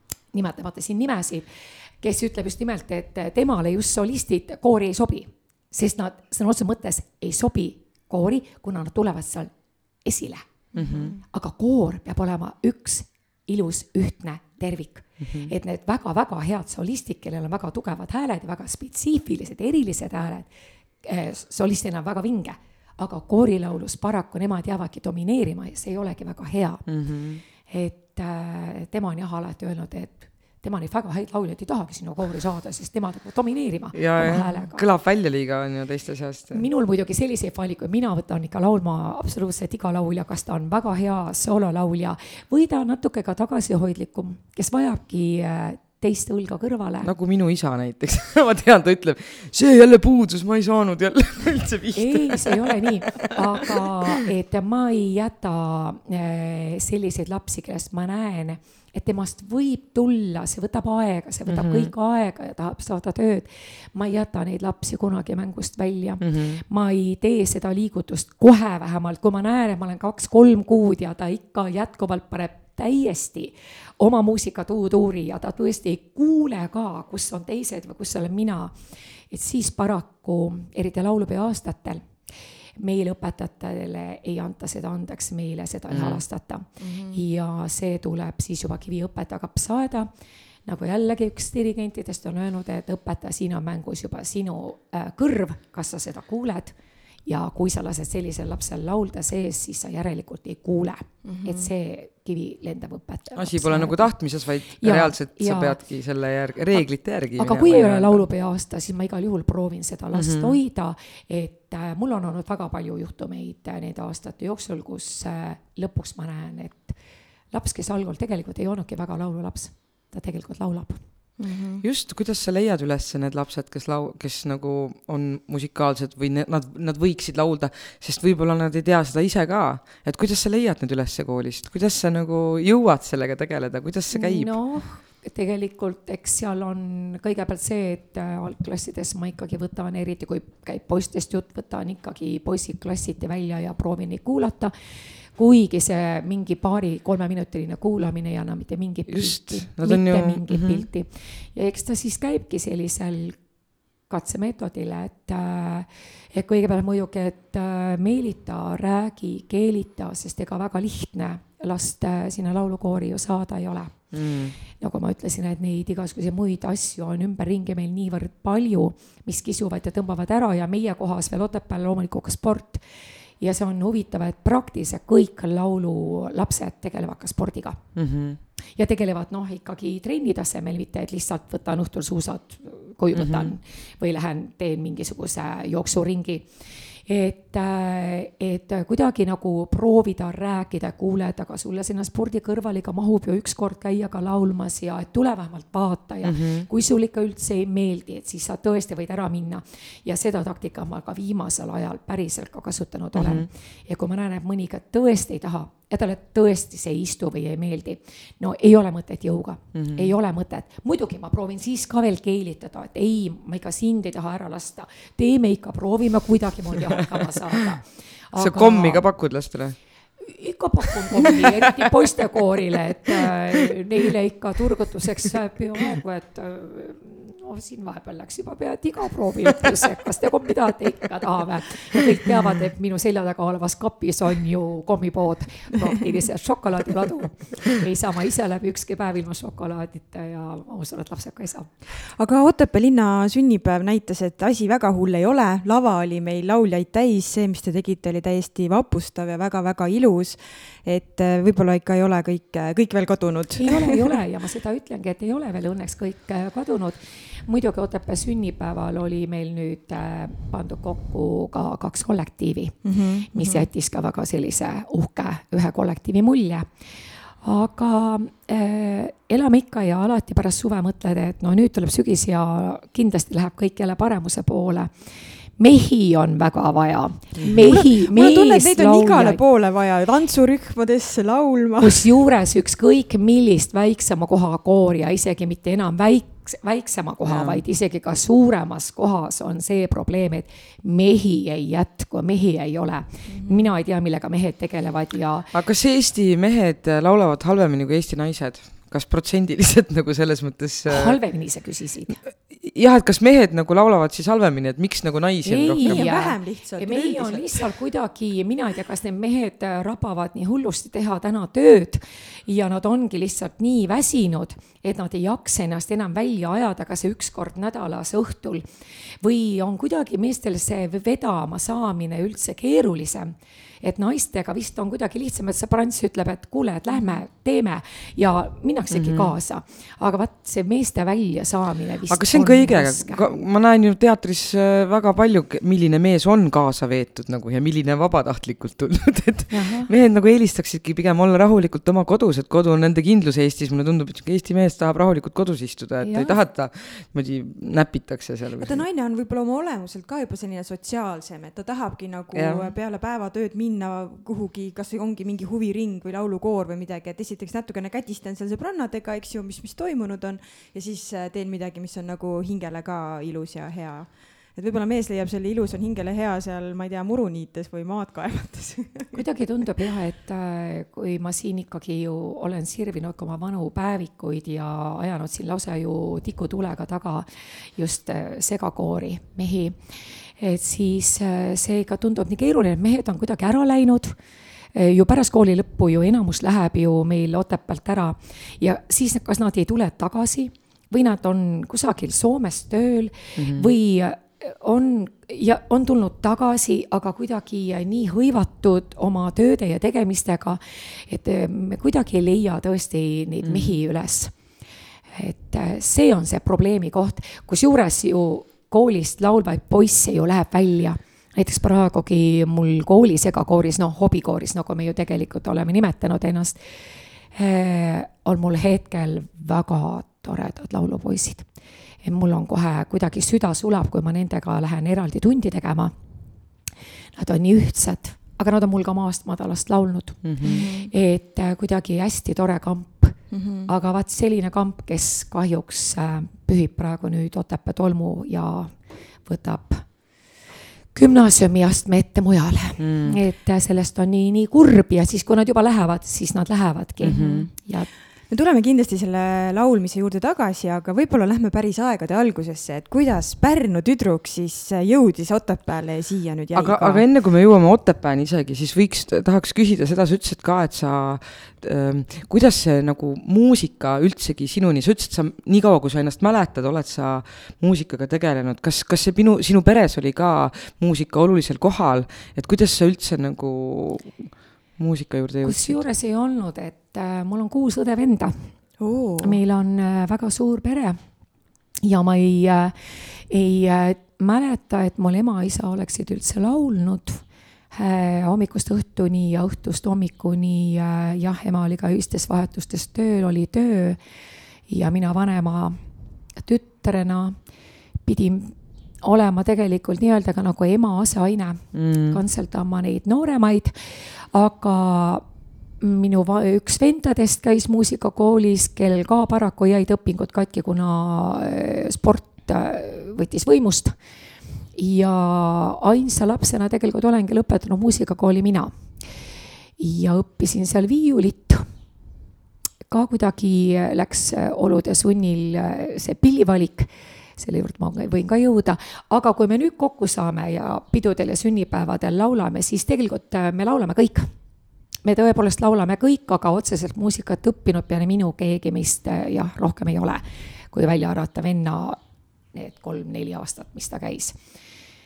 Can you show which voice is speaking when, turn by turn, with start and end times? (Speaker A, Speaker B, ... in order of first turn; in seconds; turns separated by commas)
Speaker A: 0.3-1.5, Speaker A: 2.0-9.5, Speaker A: 10.0-10.5, Speaker B: 10.8-11.2, Speaker C: 10.8-11.2, Speaker A: 11.2-20.5, Speaker A: 21.0-26.9, Speaker B: 26.9-27.4, Speaker A: 27.7-34.8, Speaker B: 33.9-36.6, Speaker A: 36.5-47.1, Speaker B: 47.0-53.7, Speaker A: 51.9-78.8, Speaker B: 61.5-61.9, Speaker B: 66.2-66.6, Speaker A: 79.3-82.1, Speaker A: 82.8-90.1, Speaker B: 85.9-86.2, Speaker C: 86.8-87.2, Speaker A: 90.6-96.7, Speaker A: 97.3-104.1, Speaker C: 101.2-101.7, Speaker B: 103.4-108.2, Speaker A: 104.7-105.8, Speaker A: 107.4-117.0, Speaker B: 110.1-110.6, Speaker A: 117.5-121.0, Speaker C: 121.4-121.8, Speaker B: 121.8-134.5, Speaker A: 134.1-144.7, Speaker A: 145.4-153.4, Speaker B: 149.1-150.9, Speaker A: 154.1-164.1, Speaker B: 164.1-164.6, Speaker A: 164.6-172.8, Speaker A: 173.4-177.8, Speaker B: 178.0-178.4, Speaker A: 178.8-186.5, Speaker B: 183.1-183.5, Speaker A: 187.1-219.1, Speaker B: 196.2-196.7, Speaker B: 203.1-203.5, Speaker B: 209.8-210.1, Speaker B: 218.3-219.8, Speaker A: 220.2-241.7, Speaker B: 221.1-221.9, Speaker C: 242.0-254.2, Speaker A: 253.6-266.7, Speaker C: 262.9-263.7, Speaker A: 267.4-274.9, Speaker A: 275.6-279.4, Speaker B: 277.4-277.8, Speaker C: 277.5-282.2, Speaker A: 281.8-295.5, Speaker B: 287.2-287.6, Speaker C: 293.3-293.7, Speaker B: 295.5-301.2, Speaker A: 300.9-302.2, Speaker B: 302.5-306.1, Speaker A: 305.4-318.6, Speaker C: 305.8-307.7, Speaker A: 319.2-333.2, Speaker B: 328.9-329.3, Speaker B: 332.1-348.8, Speaker A: 339.5-339.9, Speaker A: 346.0-346.3, Speaker C: 348.6-369.2, Speaker B: 352.3-352.8, Speaker A: 369.1-384.2, Speaker A: 384.7-404.3, Speaker B: 393.4-393.7, Speaker B: 403.4-403.8, Speaker A: 405.1-416.6, Speaker A: 417.3-421.5, Speaker A: 422.0-425.9, Speaker A: 427.2-438.7, Speaker B: 430.2-430.6, Speaker C: 430.4-430.9, Speaker C: 433.3-433.7, Speaker A: 439.2-439.9, Speaker A: 440.9-447.9, Speaker B: 442.8-443.2, Speaker B: 447.0-447.5, Speaker C: 447.1-447.5, Speaker C: 448.3-457.0, Speaker B: 456.5-475.8, Speaker A: 475.4-478.5, Speaker C: 478.8-479.4, Speaker A: 479.2-481.0, Speaker A: 481.8-494.0, Speaker A: 494.7-495.8, Speaker A: 496.4-497.4, Speaker A: 498.0-505.2, Speaker B: 501.7-502.2, Speaker A: 505.8-514.0, Speaker A: 514.8-518.7, Speaker A: 519.8-521.7, Speaker A: 522.9-534.3, Speaker A: 535.0-542.0, Speaker A: 542.5-544.4